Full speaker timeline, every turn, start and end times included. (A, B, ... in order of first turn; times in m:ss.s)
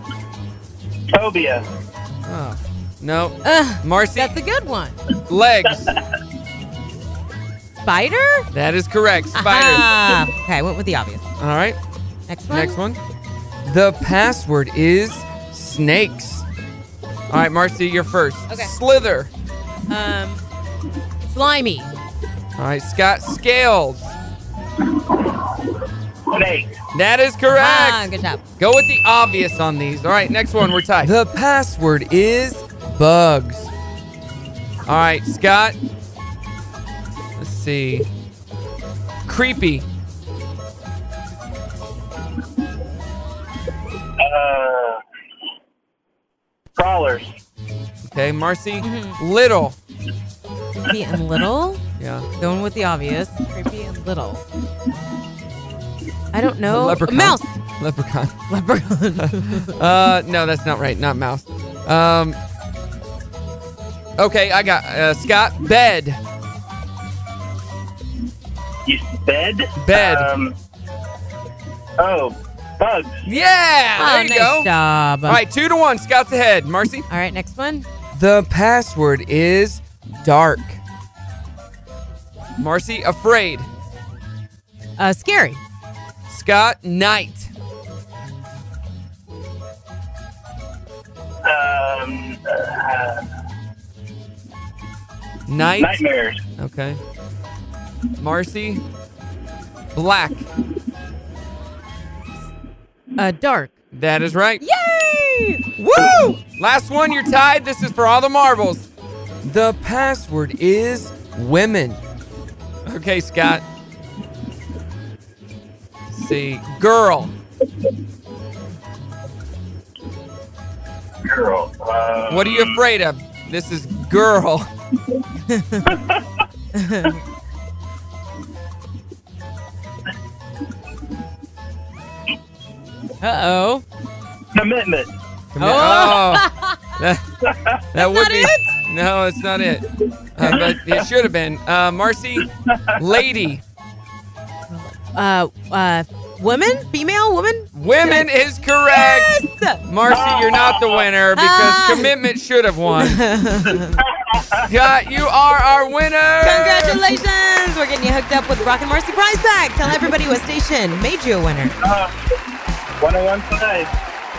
0:01.1-0:01.6 A
0:02.3-0:04.3 B
0:03.4-0:05.0 C
0:05.3-0:05.9 B
0:07.8-0:08.5 C
0:08.5-0:09.9 B
0:09.3-0:11.2 C
0:11.4-0:11.8 B
0:12.3-0:12.8 C
0:12.5-0:13.0 B
0:13.6-0:16.5 B
0:17.3-0:19.3 B
0:19.9-0:20.4 C
0:21.2-0:21.9 C
0:22.6-0:24.1 B
0:26.3-0:26.8 A
0:26.9-0:28.1 B
0:27.5-0:28.4 C
0:28.6-0:33.7 B
0:34.9-0:35.8 B
0:37.4-0:38.1 B
0:39.3-0:39.9 B
0:44.2-0:45.0 A
0:46.8-0:47.3 A
0:48.0-0:49.8 B
0:48.8-0:49.2 C
0:50.9-0:51.8 C
0:52.0-0:52.3 B
0:52.4-0:54.4 C
0:56.3-0:57.5 C
0:56.7-0:58.4 B
0:58.5-0:59.7 C
0:59.2-1:02.4 B
1:04.2-1:06.2 B
1:08.8-1:10.5 A
1:09.8-1:10.3 B
1:12.0-1:13.2 A
1:13.2-1:14.7 B
1:14.0-1:15.4 C
1:15.3-1:17.1 B
1:17.1-1:17.9 C
1:18.1-1:20.8 B
1:22.6-1:23.7 B
1:25.0-1:25.6 C
1:26.3-1:27.5 B
1:31.4-1:33.2 A
1:35.5-1:36.0 B
1:35.8-1:36.4 A
1:36.6-1:37.0 B
1:38.2-1:38.8 B
1:39.9-1:40.5 B
1:43.2-1:43.7 C
1:43.9-1:44.6 B
1:44.6-1:45.6 C
1:45.8-1:48.9 B
1:49.4-1:52.0 B
1:52.9-1:53.6 B
1:56.1-1:57.3 B
2:01.2-2:02.8 A
2:02.3-2:04.7 B
2:05.5-2:05.9 C
2:05.9-2:06.2 A
2:06.8-2:07.2 C
2:13.2-2:13.8 C
2:14.5-2:15.1 A
2:15.5-2:16.5 B
2:15.6-2:16.8 C
2:17.0-2:17.2 B
2:17.4-2:17.8 A
2:17.9-2:19.8 B
2:18.0-2:18.7 C
2:20.4-2:22.4 B
2:20.4-2:21.1 A
2:22.4-2:23.0 A
2:23.0-2:23.6 B
2:24.7-2:28.3 C
2:27.7-2:33.2 B
2:28.9-2:29.8 C
2:30.1-2:31.1 A
2:31.4-2:32.1 C
2:33.0-2:34.0 C
2:34.0-2:34.7 A
2:34.7-2:37.0 B
2:36.4-2:41.8 C
2:41.8-2:42.1 A
2:43.0-2:43.9 A